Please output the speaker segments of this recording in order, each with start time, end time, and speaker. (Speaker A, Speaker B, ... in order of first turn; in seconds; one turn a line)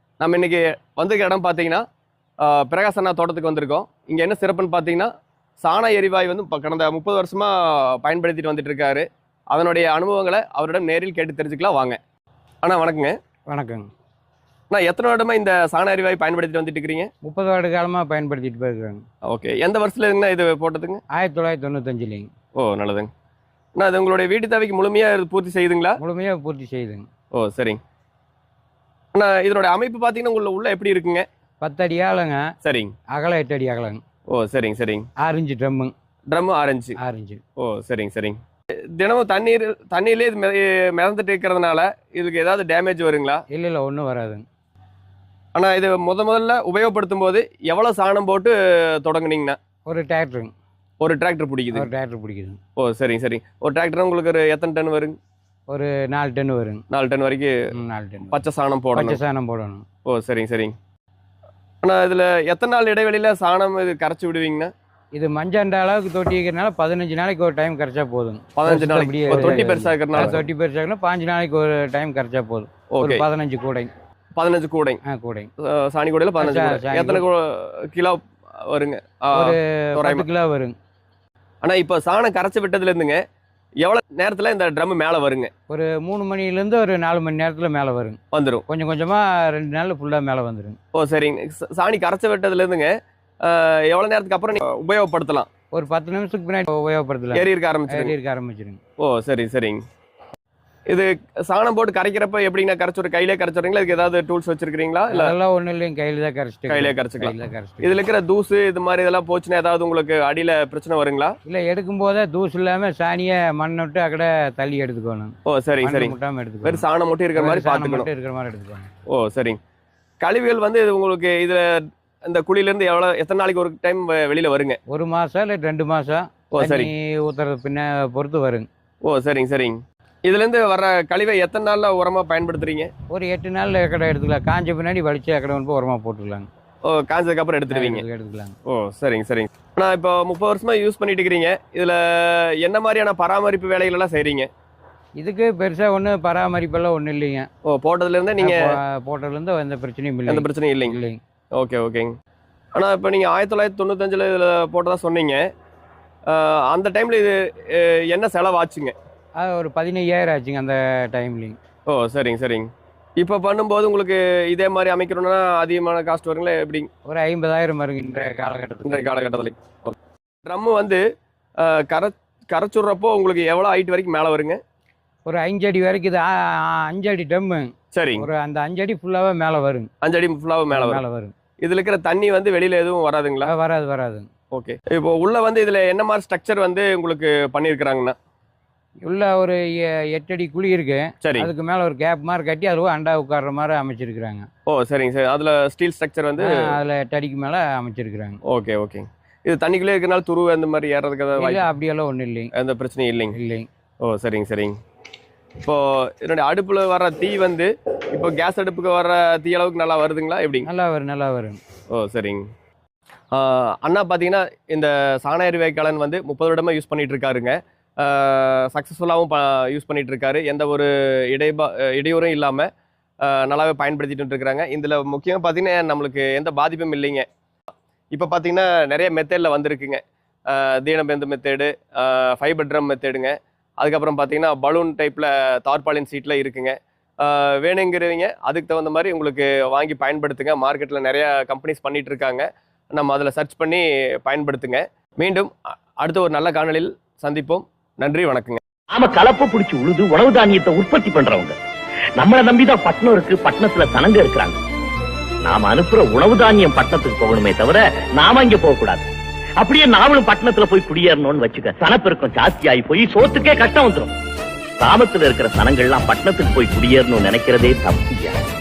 Speaker A: 0.2-1.8
Speaker A: 2.4-5.1
Speaker A: 5.6-12.0
Speaker A: 12.6-13.2
Speaker B: 13.5-13.9
Speaker A: 14.7-17.1
Speaker B: 17.2-19.0
Speaker A: 19.2-21.0
Speaker B: 21.1-22.3
Speaker A: 22.6-23.1
Speaker A: 23.8-26.0
Speaker B: 26.0-27.1
Speaker A: 27.3-27.8
Speaker A: 29.1-31.2
Speaker B: 31.6-32.5
Speaker A: 32.6-32.9
Speaker B: 33.1-34.0
Speaker A: 34.3-35.1
Speaker B: 35.2-35.9
Speaker A: 36.3-37.0
Speaker B: 37.0-37.4
Speaker A: 37.6-38.4
Speaker A: 39.0-43.4
Speaker B: 43.5-44.4
Speaker A: 45.5-49.6
Speaker B: 49.9-50.5
Speaker A: 51.0-51.9
Speaker B: 51.7-52.6
Speaker A: 52.8-55.1
Speaker B: 55.7-56.8
Speaker A: 56.9-57.5
Speaker B: 57.7-58.4
Speaker A: 58.3-59.2
Speaker B: 58.9-59.8
Speaker A: 60.0-60.7
Speaker A: 61.8-64.7
Speaker B: 65.1-73.9
Speaker A: 68.5-70.4
Speaker A: 72.9-73.2
Speaker A: 74.3-75.0
Speaker B: 75.0-75.5
Speaker A: 75.6-80.2
Speaker B: 76.4-77.2
Speaker B: 79.3-80.7
Speaker A: 81.6-83.2
Speaker A: 83.8-85.5
Speaker B: 85.7-90.8
Speaker A: 88.3-88.6
Speaker A: 90.9-95.5
Speaker B: 95.7-98.8
Speaker A: 97.3-98.1
Speaker A: 99.0-99.8
Speaker A: 100.9-105.3
Speaker B: 105.1-108.0
Speaker A: 106.7-111.3
Speaker B: 111.5-118.9
Speaker A: 115.5-118.1
Speaker A: 119.1-119.6
Speaker A: 120.2-124.8
Speaker B: 124.9-128.7
Speaker A: 126.5-126.9
Speaker A: 129.0-132.9
Speaker B: 133.1-136.5
Speaker A: 136.8-138.0
Speaker B: 137.7-138.5
Speaker A: 138.7-144.5
Speaker B: 145.2-147.5
Speaker A: 147.6-148.6
Speaker B: 148.4-151.2
Speaker A: 150.3-151.0
Speaker A: 151.6-152.1
Speaker A: 152.7-155.4
Speaker A: 156.3-158.9
Speaker B: 159.3-161.6
Speaker A: 161.9-166.9
Speaker B: 167.1-169.1
Speaker A: 168.8-171.0
Speaker A: 171.6-174.6
Speaker B: 175.2-179.9
Speaker A: 177.9-178.3
Speaker A: 180.0-181.0
Speaker B: 180.7-181.3
Speaker A: 181.6-183.5
Speaker B: 183.4-184.3
Speaker A: 184.5-188.2
Speaker B: 189.0-194.5
Speaker A: 191.2-191.5
Speaker A: 194.7-196.7
Speaker B: 196.4-198.4
Speaker A: 198.4-201.7
Speaker B: 201.4-202.5
Speaker A: 202.5-203.4
Speaker B: 203.3-203.7
Speaker A: 204.0-204.8
Speaker A: 205.6-210.7
Speaker B: 210.6-211.6
Speaker A: 211.9-212.5
Speaker A: 213.3-222.7
Speaker A: 223.2-227.3
Speaker A: 228.1-248.6
Speaker C: 248.9-251.6
Speaker C: 252.2-254.6
Speaker C: 255.4-259.1
Speaker C: 259.6-264.1
Speaker C: 264.8-268.4